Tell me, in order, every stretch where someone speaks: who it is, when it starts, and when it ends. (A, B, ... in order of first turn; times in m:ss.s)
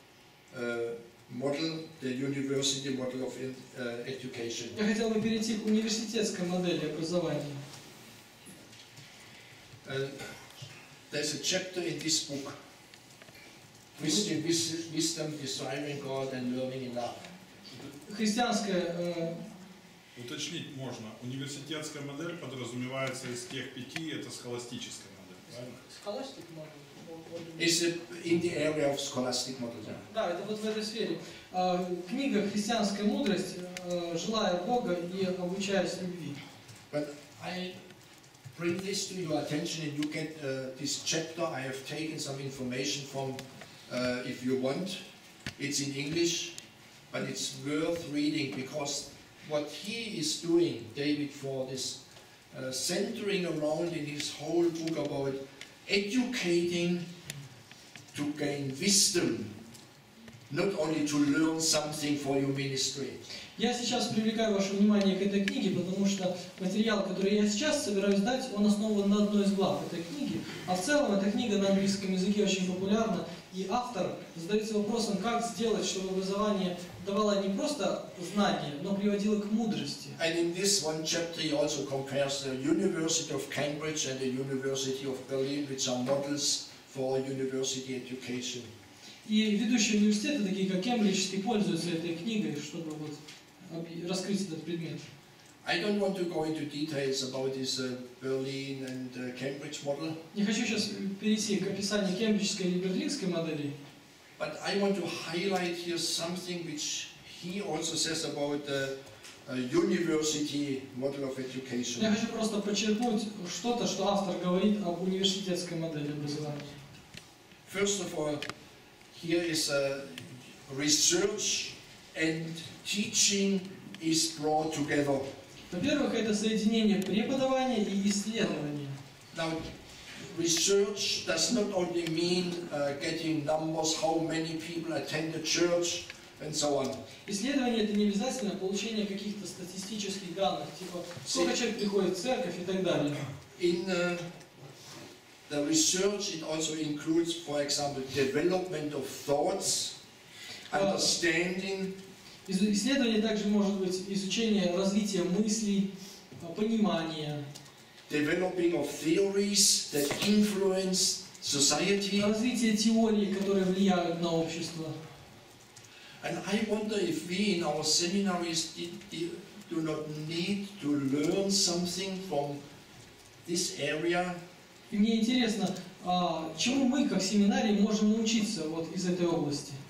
0:00.5-0:04.8 A
0:04.8-0:07.6 B
0:09.8-0:10.2 A
0:11.1-0:12.6 A
0:14.0-0:17.2 A
0:18.0-0:19.4 B
0:20.2-0:25.7 C
0:25.5-0:27.7 B
0:27.6-0:30.0 A
0:30.1-0:36.4 B
0:36.9-0:37.8 A
0:38.5-0:45.0 A
0:45.6-0:46.5 A
0:47.1-0:57.1 A
0:58.1-0:59.5 A
1:00.5-1:03.2 A
1:03.6-1:20.2 B
1:20.2-1:28.7 A
1:29.2-1:35.0 B
1:35.6-1:40.2 A
1:40.3-1:43.7 B
1:44.4-1:52.1 A
1:52.0-1:56.8 B
1:57.6-1:58.4 A
1:59.1-2:05.3 A
2:05.7-2:09.0 B
2:09.3-2:09.7 A
2:10.2-2:17.0 A
2:17.2-2:23.2 B
2:21.2-2:21.5 A
2:23.5-2:24.3 A
2:25.5-2:30.0 A
2:30.7-2:32.0 A
2:30.7-2:31.1 B
2:32.4-2:37.4 B
2:38.1-2:42.3 A
2:42.2-2:45.0 B
2:46.2-2:52.6 A
2:53.4-2:54.4 A
2:54.9-2:59.8 B